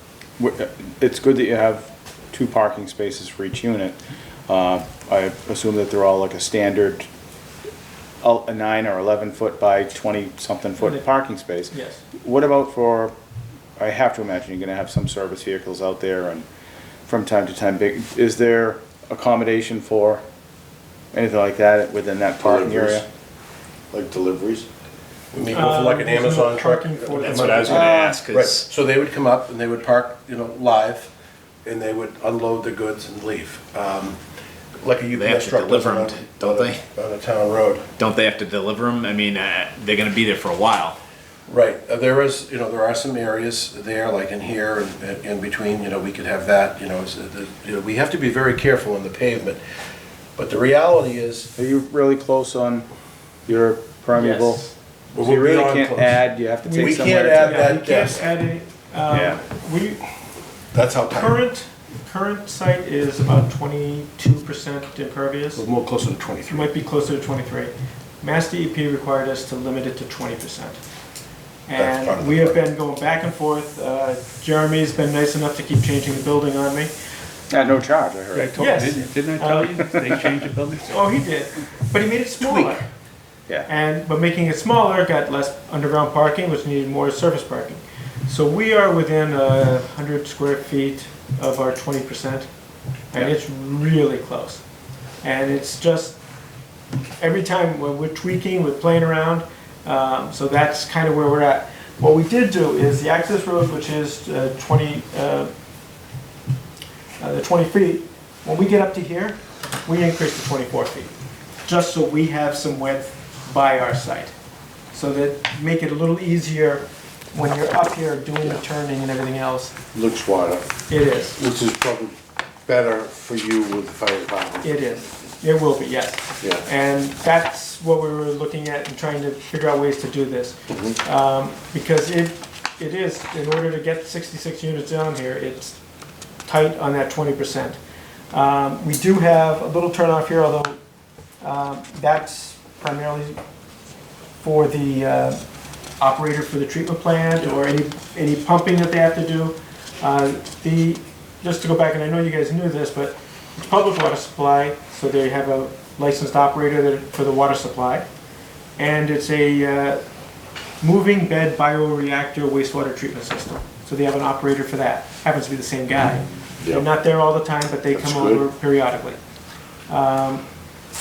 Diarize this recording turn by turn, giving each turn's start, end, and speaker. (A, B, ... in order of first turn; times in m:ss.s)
0:00.4-0:07.1 A
0:08.2-0:13.1 A
0:11.7-0:12.0 B
0:13.8-0:16.5 A
0:17.1-0:20.2 A
0:21.1-0:23.0 A
0:22.4-0:23.1 C
0:23.9-0:24.7 C
0:25.3-0:31.1 D
0:25.5-0:27.6 B
0:27.3-0:28.6 E
0:27.7-0:28.2 A
0:31.6-0:34.2 D
0:34.8-0:37.9 D
0:35.1-0:36.8 E
0:38.0-0:41.0 E
0:41.5-0:49.6 D
0:50.4-0:51.5 D
0:51.6-0:52.9 A
0:53.5-0:57.8 A
0:54.2-0:54.7 B
0:55.1-0:56.2 D
0:56.6-1:00.0 B
0:56.8-0:58.3 D
0:59.1-0:59.4 A
1:00.7-1:01.3 D
1:01.1-1:05.6 B
1:05.6-1:06.7 D
1:06.5-1:10.8 B
1:11.7-1:16.9 B
1:11.8-1:12.6 D
1:17.5-1:18.9 A
1:18.3-1:21.1 F
1:18.6-1:19.8 B
1:20.8-1:22.9 B
1:22.4-1:22.8 D
1:23.7-1:32.5 B
1:33.1-1:34.6 B
1:35.2-1:36.2 B
1:37.2-1:45.5 B
1:47.2-1:51.1 B
1:51.6-1:54.3 B
1:54.9-1:59.8 B
1:59.9-2:00.7 C
2:00.9-2:01.4 B
2:01.4-2:04.8 C
2:04.6-2:15.8 B
2:10.7-2:11.0 C
2:16.4-2:17.8 B
2:18.3-2:20.8 B
2:21.4-2:23.4 B
2:24.4-2:25.4 B
2:26.0-2:38.1 B
2:38.8-2:40.0 B
2:40.8-2:49.2 B
2:47.9-2:48.4 C
2:49.9-2:50.5 B